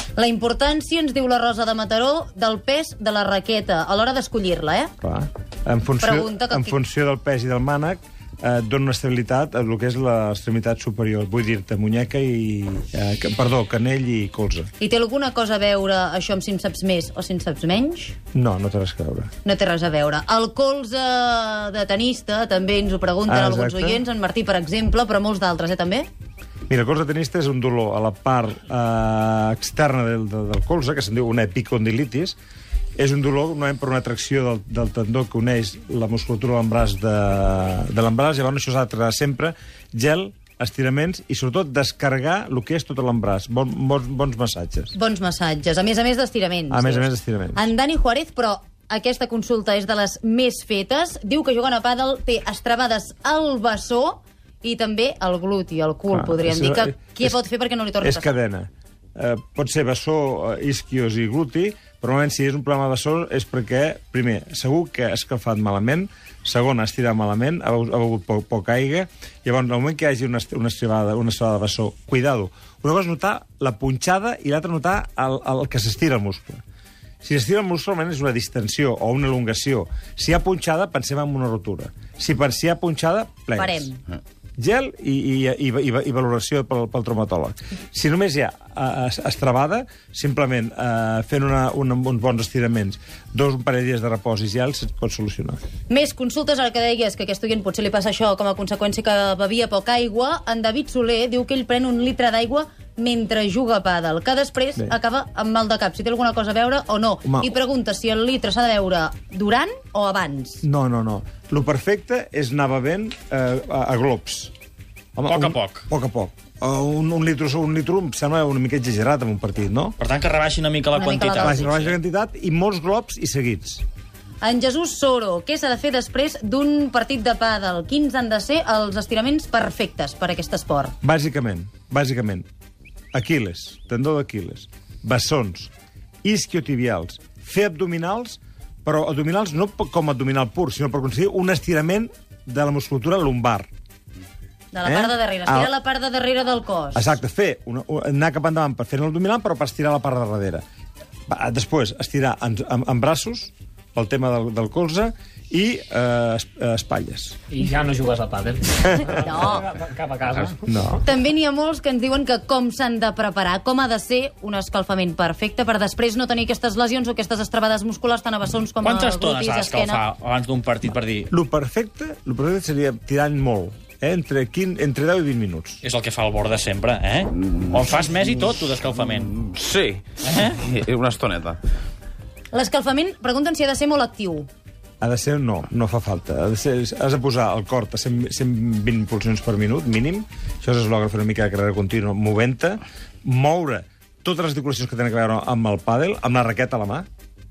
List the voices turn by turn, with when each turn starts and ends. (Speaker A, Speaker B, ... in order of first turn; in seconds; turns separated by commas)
Speaker A: 0.1-4.9, Speaker B: 5.0-14.7, Speaker A: 6.0-6.8, Speaker A: 14.8-18.1, Speaker B: 18.3-19.3, Speaker A: 19.4-26.1, Speaker B: 23.3-24.0, Speaker B: 26.7-32.4, Speaker B: 33.0-44.9, Speaker A: 44.9-58.3, Speaker B: 46.7-47.7, Speaker B: 56.1-57.4, Speaker B: 58.0-76.6, Speaker B: 77.2-83.9, Speaker A: 83.5-84.0, Speaker B: 84.6-95.6, Speaker A: 95.9-110.6, Speaker B: 107.2-107.5, Speaker B: 110.6-114.5, Speaker B: 115.1-120.0, Speaker C: 115.3-115.8, Speaker C: 120.0-122.0, Speaker A: 120.9-121.7, Speaker B: 121.4-123.8, Speaker A: 124.4-130.9, Speaker B: 131.0-132.4, Speaker B: 133.1-135.7, Speaker B: 136.2-143.7, Speaker A: 144.7-147.1, Speaker B: 144.8-145.7, Speaker B: 146.9-150.6, Speaker B: 151.3-157.4, Speaker D: 157.5-160.6, Speaker A: 159.1-159.7, Speaker B: 160.6-161.0, Speaker A: 161.0-170.0, Speaker C: 168.8-171.3, Speaker B: 171.3-175.8, Speaker C: 175.8-179.4, Speaker E: 179.4-181.6, Speaker C: 180.2-180.6, Speaker A: 182.5-184.5, Speaker B: 185.0-197.1